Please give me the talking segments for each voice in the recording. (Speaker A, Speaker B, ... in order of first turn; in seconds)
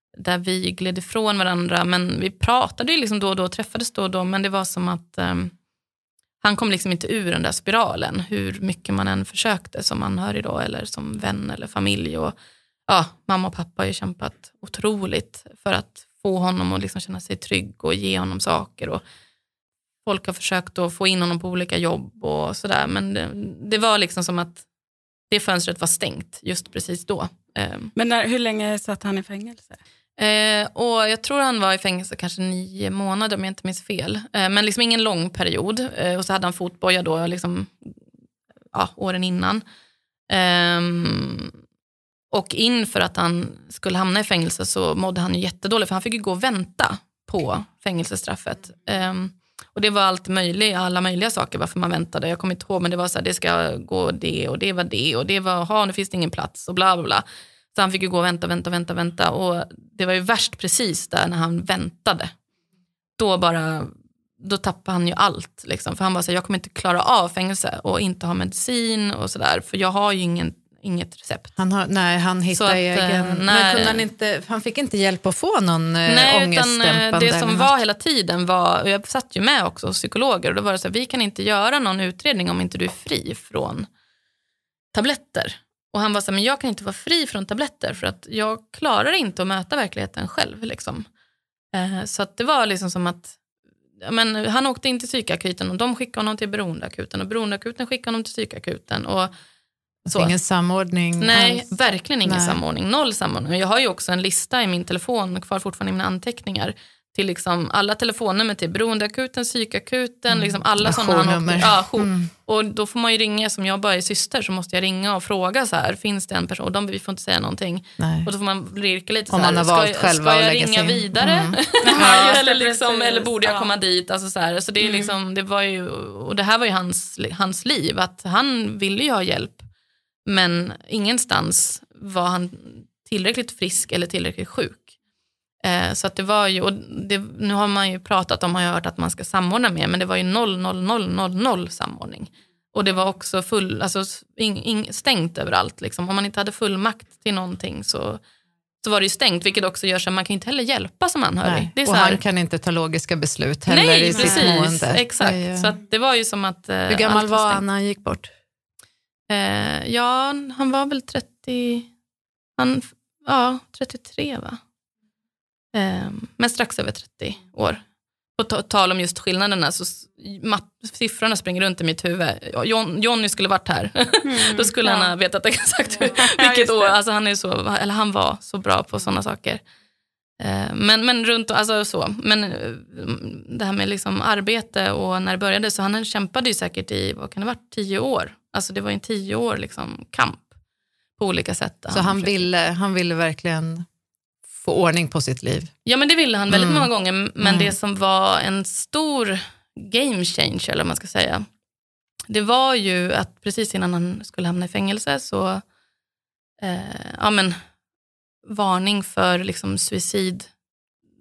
Speaker A: 0.2-5.5, 6.4-12.3, 12.9-19.0, 20.0-24.6, 25.3-27.9, 30.2-38.0, 38.7-39.6, 40.3-41.5, 42.3-62.3, 63.2-71.5, 72.5-74.0, 76.1-83.9, 84.9-91.1, 91.7-93.4, 94.0-99.3, 101.2-129.7, 130.3-134.9, 135.6-148.2, 148.8-152.2, 153.7-157.6, 159.3-161.9, 162.6-164.6, 165.7-167.8, 168.4-179.6, 180.4-190.5, 191.2-192.5, 195.8-201.5, 202.3-205.6, 206.6-207.6, 208.5-210.5
Speaker B: 27.9-29.8, 121.8-123.7, 124.8-125.1, 154.1-154.5, 174.3-175.1, 176.2-176.9
Speaker C: 71.6-77.7, 100.0-102.6, 110.3-112.3, 118.0-118.3, 119.3-122.2, 151.4-155.7, 156.9-158.3, 191.9-193.9, 194.5-195.7, 196.5-196.9, 197.4-197.7